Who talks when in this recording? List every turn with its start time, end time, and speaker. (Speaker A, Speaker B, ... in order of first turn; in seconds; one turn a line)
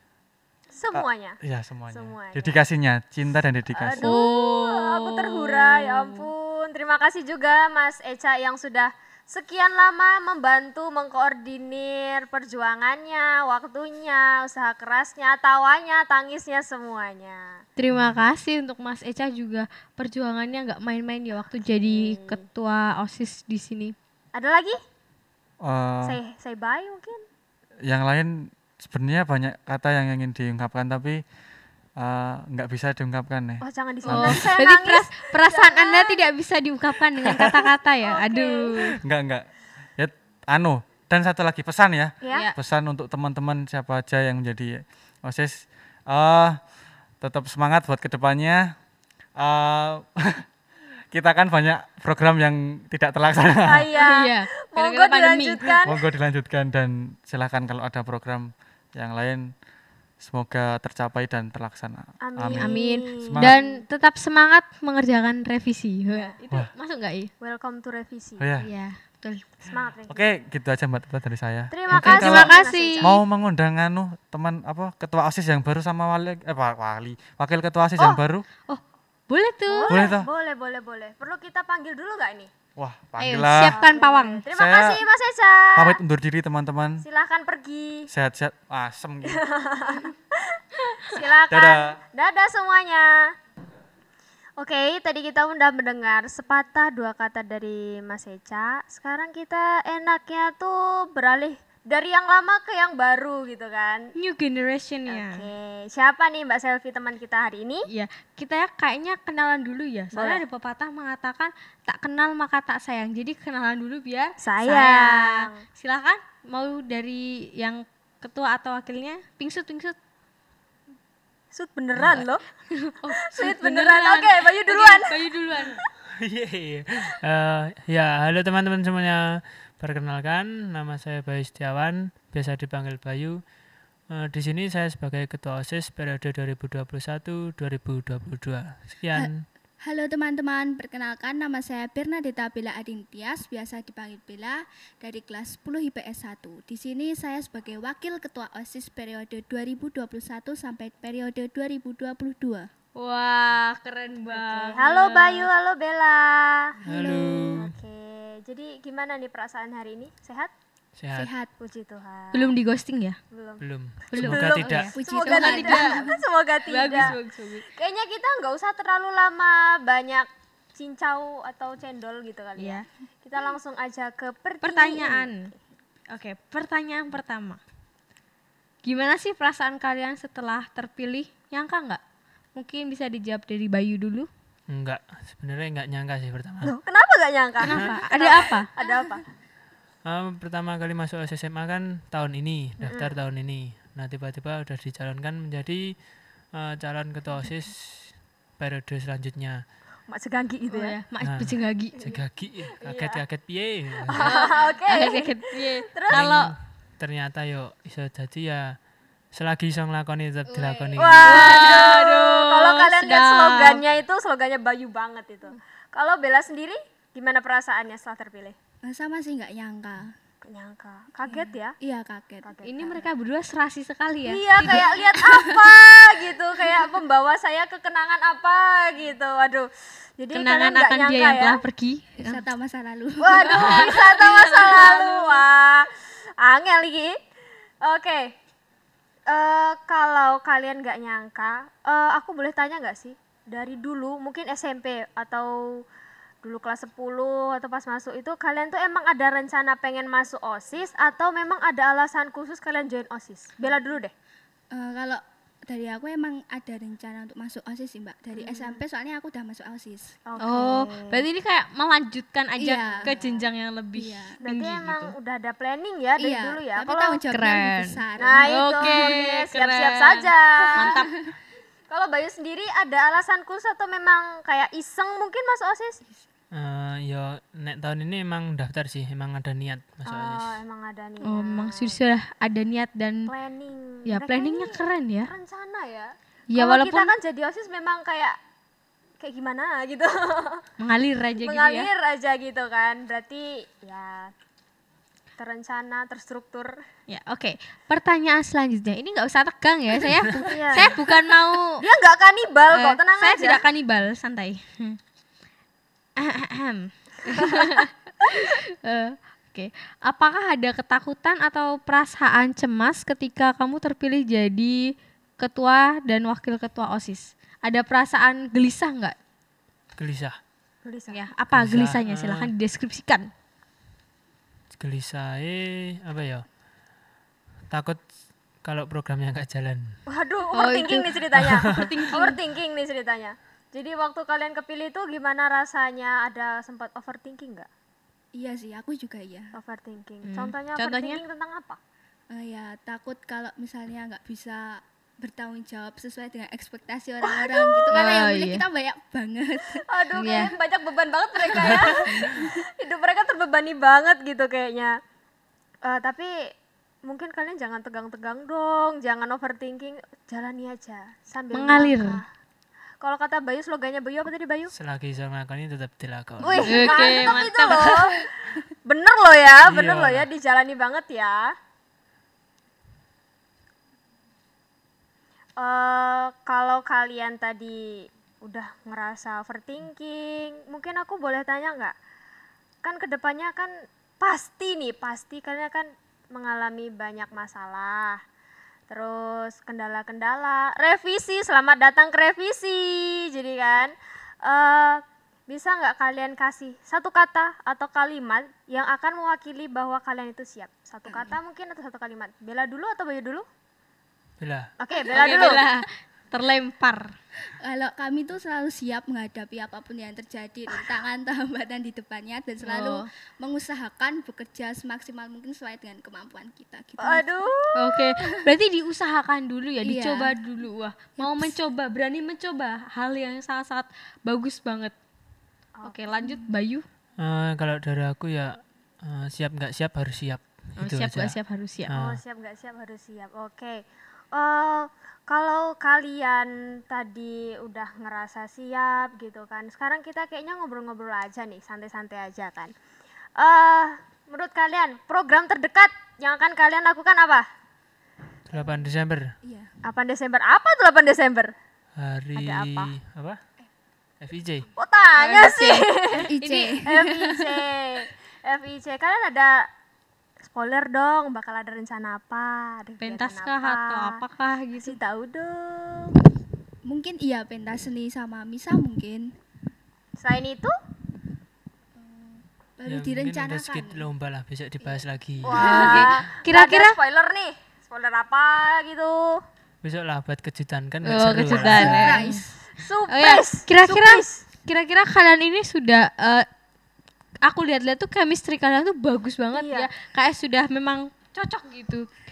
Speaker A: 0.7-1.4
Speaker B: 0.9-4.2
Speaker A: 1.9-2.6
Speaker A: 3.7-17.6
Speaker C: 4.0-6.2
Speaker C: 17.8-23.9
Speaker A: 21.6-22.4
Speaker A: 24.3-24.8
Speaker B: 25.6-26.2
Speaker A: 26.0-27.2
Speaker B: 27.9-31.2
Speaker B: 32.0-34.5
Speaker A: 33.6-36.2
Speaker C: 34.1-38.9
Speaker A: 38.0-38.9
Speaker B: 39.0-48.7
Speaker C: 42.3-42.5
Speaker B: 49.3-50.4
Speaker B: 51.1-53.9
Speaker A: 53.6-56.0
Speaker C: 54.0-55.6
Speaker B: 55.8-59.5
Speaker B: 60.2-63.5
Speaker A: 62.2-63.8
Speaker C: 62.5-67.3
Speaker A: 67.4-68.5
Speaker B: 68.4-68.7
Speaker C: 68.6-69.4
Speaker A: 69.6-70.3
Speaker B: 70.1-78.4
Speaker A: 71.7-73.2
Speaker C: 71.9-73.1
Speaker C: 78.7-80.0
Speaker A: 79.7-82.5
Speaker B: 79.9-80.3
Speaker B: 82.8-83.8
Speaker C: 83.2-84.4
Speaker A: 83.7-86.0
Speaker B: 84.5-85.0
Speaker B: 85.7-87.0
Speaker A: 87.0-88.1
Speaker B: 88.1-89.4
Speaker A: 89.3-93.3
Speaker B: 91.5-92.0
Speaker A: 94.6-104.1
Speaker C: 104.2-105.4
Speaker A: 105.1-107.9
Speaker C: 107.9-119.9
Speaker A: 110.1-110.4
Speaker A: 114.4-115.6
Speaker A: 121.5-122.4
Speaker D: 121.9-122.2
Speaker C: 122.7-125.8
Speaker A: 123.3-125.8
Speaker D: 126.2-139.4
Speaker E: 139.1-152.7
Speaker C: 153.0-155.5
Speaker A: 154.3-156.8
Speaker D: 156.8-157.7
Speaker E: 156.9-157.6
Speaker A: 157.5-160.5
Speaker D: 161.0-161.3
Speaker E: 161.1-161.5
Speaker A: 161.6-162.6
Speaker C: 162.3-163.2
Speaker A: 163.3-175.6
Speaker D: 163.6-164.9
Speaker C: 164.1-167.7
Speaker E: 164.9-166.2
Speaker C: 172.6-172.8
Speaker C: 174.6-175.5
Speaker C: 176.1-177.6
Speaker C: 178.8-182.0
Speaker C: 182.5-184.3
Speaker D: 184.7-186.7
Speaker A: 186.6-189.2
Speaker C: 187.6-188.7
Speaker D: 190.0-199.6
Speaker A: 192.8-193.1
Speaker A: 200.1-200.9
Speaker C: 200.7-202.1
Speaker D: 201.2-204.4
Speaker A: 202.8-203.2
Speaker A: 204.0-206.3
Speaker C: 204.2-206.5
Speaker D: 206.1-211.7
Speaker C: 210.5-213.8
Speaker A: 210.9-218.6
Speaker E: 218.8-220.1
Speaker A: 220.4-221.8
Speaker E: 221.2-222.5
Speaker A: 222.4-223.1
Speaker C: 222.6-224.9
Speaker A: 224.3-231.6
Speaker E: 224.6-225.8
Speaker C: 230.3-232.4
Speaker E: 232.2-233.9
Speaker A: 233.2-237.2
Speaker C: 233.5-235.4
Speaker A: 237.8-238.3
Speaker A: 239.3-245.8
Speaker A: 246.4-254.1
Speaker E: 254.7-260.2
Speaker A: 258.4-258.8
Speaker A: 260.2-261.2
Speaker C: 260.4-265.1
Speaker E: 262.6-264.4
Speaker A: 264.4-267.2
Speaker E: 266.2-268.5
Speaker C: 267.3-271.1
Speaker A: 268.2-270.9
Speaker E: 270.6-271.3
Speaker A: 271.9-276.0
Speaker D: 276.5-280.6
Speaker A: 280.1-282.0
Speaker C: 281.2-283.3
Speaker A: 283.3-288.4
Speaker C: 284.1-285.3
Speaker C: 286.5-287.1
Speaker A: 289.2-290.6
Speaker C: 290.8-291.9
Speaker A: 291.4-294.3
Speaker A: 295.4-296.8
Speaker C: 297.1-301.8
Speaker A: 300.4-301.0
Speaker A: 301.7-303.6
Speaker C: 302.7-305.0
Speaker C: 306.2-319.1
Speaker D: 320.0-320.4
Speaker A: 320.8-321.2
Speaker C: 321.1-323.3
Speaker D: 321.5-322.5
Speaker D: 324.7-327.0
Speaker D: 327.7-330.0
Speaker A: 330.1-337.7
Speaker C: 330.5-331.1
Speaker D: 331.3-331.9
Speaker C: 331.7-332.4
Speaker E: 338.3-339.6
Speaker A: 339.6-341.8
Speaker C: 340.2-341.2
Speaker E: 342.3-349.8
Speaker A: 347.2-348.0
Speaker C: 347.9-348.6
Speaker A: 349.9-355.0
Speaker C: 350.1-350.6
Speaker E: 352.0-352.6
Speaker A: 355.8-356.5
Speaker A: 357.0-362.2
Speaker C: 361.5-362.2
Speaker A: 363.0-364.7
Speaker D: 364.7-367.0
Speaker A: 366.4-371.5
Speaker C: 366.6-368.0
Speaker D: 369.6-370.3
Speaker A: 375.6-381.9
Speaker A: 382.8-388.2
Speaker A: 388.9-403.4
Speaker E: 401.1-401.3
Speaker D: 404.4-404.7
Speaker A: 404.8-405.6
Speaker E: 405.1-405.6
Speaker C: 405.1-407.1
Speaker E: 407.6-417.5
Speaker C: 412.6-413.1
Speaker A: 417.0-417.9
Speaker C: 417.7-424.9
Speaker E: 419.8-420.4
Speaker E: 421.2-421.5
Speaker A: 425.7-426.0
Speaker C: 425.8-426.8
Speaker D: 427.2-432.2
Speaker C: 430.8-431.9
Speaker A: 432.0-442.7
Speaker A: 443.4-447.4
Speaker D: 448.5-449.3
Speaker E: 449.4-449.7
Speaker A: 449.8-451.5
Speaker D: 452.0-453.4
Speaker A: 452.4-452.9
Speaker D: 454.2-454.7
Speaker A: 454.8-456.3
Speaker C: 455.1-456.8
Speaker E: 456.3-457.6
Speaker A: 456.8-459.7
Speaker A: 460.5-464.2
Speaker C: 463.0-465.0
Speaker A: 464.8-466.1
Speaker E: 466.8-469.3
Speaker A: 470.2-470.7
Speaker E: 472.0-474.0
Speaker D: 472.9-475.8
Speaker E: 474.8-476.1
Speaker A: 475.4-479.4
Speaker C: 475.6-477.0
Speaker D: 479.8-482.3
Speaker C: 481.0-482.4
Speaker E: 481.5-482.6
Speaker A: 482.7-484.4
Speaker C: 483.1-486.5
Speaker C: 487.4-492.1
Speaker A: 489.5-489.9